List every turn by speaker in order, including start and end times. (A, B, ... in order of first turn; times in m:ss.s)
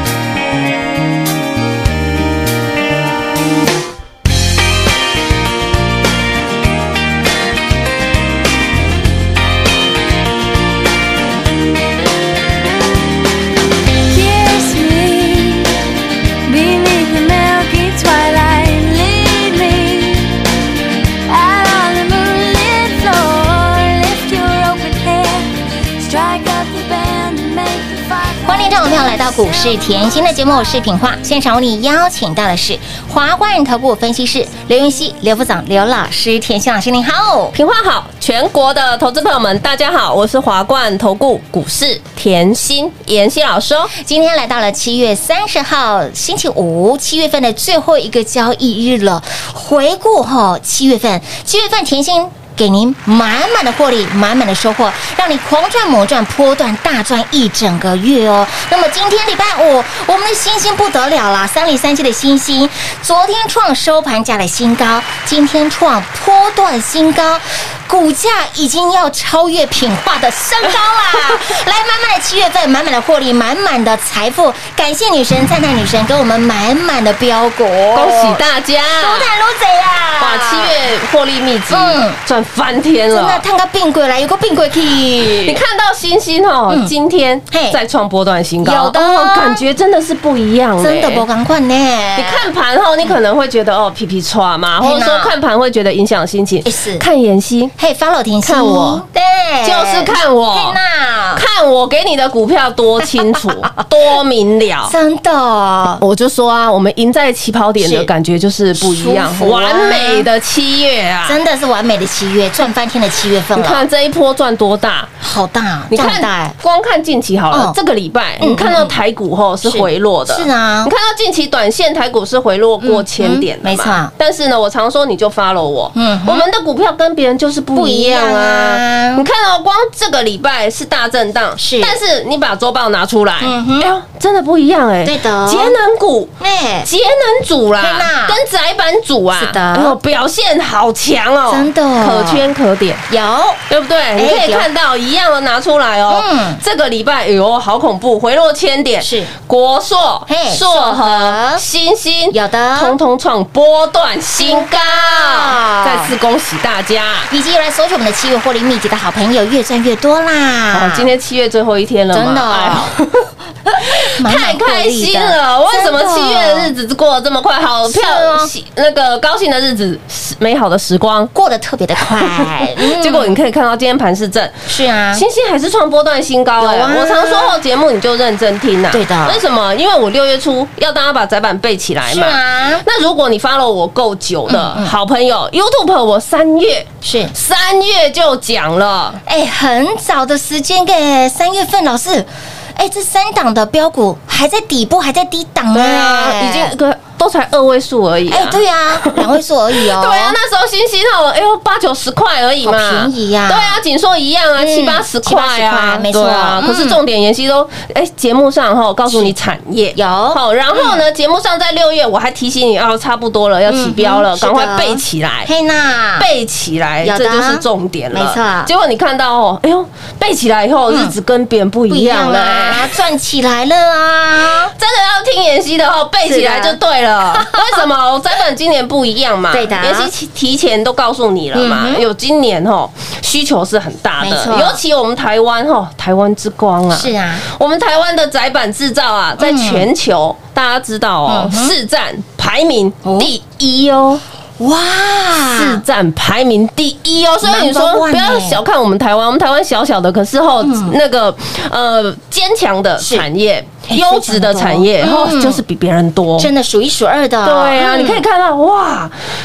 0:14.1-0:15.8 A
0:16.4-0:20.4 A
0:21.3-0:29.5 A
0:28.4-0:37.5 B
0:37.5-0:43.9 C
0:43.9-1:20.8 B
1:17.9-1:19.3 C
1:20.2-1:23.4 C
1:21.7-1:22.2 B
1:23.1-1:25.6 B
1:25.4-1:31.2 C
1:26.7-1:26.9 B
1:27.5-1:27.8 B
1:28.6-1:29.6 B
1:30.8-1:32.5 B
1:32.2-1:37.7 C
1:34.8-1:35.3 B
1:36.6-1:37.0 B
1:37.8-1:41.4 B
1:38.4-1:39.0 C
1:39.6-1:40.8 C
1:41.3-1:44.9 C
1:43.1-1:43.4 B
1:44.9-1:46.0 B
1:46.0-1:51.4 C
1:47.8-1:48.1 B
1:48.8-1:50.2 B
1:51.2-1:53.8 B
1:53.5-1:55.1 C
1:55.2-1:56.6 B
1:55.9-2:23.0 C
1:57.5-1:57.8 B
1:58.4-1:59.0 B
1:59.6-2:00.9 B
2:02.8-2:04.1 B
2:05.9-2:06.5 B
2:07.7-2:09.2 B
2:11.6-2:12.0 B
2:13.4-2:13.9 B
2:15.0-2:15.7 B
2:16.4-2:16.9 B
2:17.8-2:18.4 B
2:19.4-2:20.0 B
2:21.5-2:22.4 B
2:23.1-2:23.6 B
2:23.7-2:37.3 C
2:24.2-2:24.7 B
2:26.1-2:26.6 B
2:29.0-2:29.3 B
2:30.3-2:31.6 B
2:32.3-2:33.0 B
2:34.4-2:36.1 B
2:37.3-2:41.1 B
2:40.7-2:43.3 C
2:42.1-2:42.9 B
2:43.7-2:46.7 B
2:43.8-2:51.3 C
2:47.8-2:48.5 B
2:51.3-2:53.4 B
2:52.0-3:09.2 C
2:54.7-2:55.2 B
2:56.6-2:57.5 B
2:58.9-2:59.4 B
3:02.0-3:02.8 B
3:04.5-3:04.9 B
3:07.0-3:07.3 B
3:09.2-3:16.7 B
3:15.7-3:35.5 C
3:18.3-3:20.4 B
3:22.6-3:23.8 B
3:24.6-3:27.0 B
3:29.1-3:29.3 B
3:29.9-3:31.0 B
3:33.7-3:36.3 B
3:36.2-3:43.0 C
3:37.0-3:38.7 B
3:40.9-3:41.1 B
3:41.9-3:44.7 B
3:44.8-4:04.2 C
3:46.2-3:47.8 B
3:49.5-3:50.1 B
3:51.5-3:52.0 B
3:54.2-3:54.8 B
3:56.9-3:57.4 B
3:59.4-3:59.9 B
4:01.3-4:01.7 B
4:03.0-4:03.3 B
4:04.6-4:05.8 B
4:05.6-4:16.5 C
4:07.4-4:08.6 B
4:10.6-4:11.0 B
4:13.0-4:13.2 B
4:13.9-4:15.6 B
4:16.4-4:18.2 B
4:17.4-4:19.1 C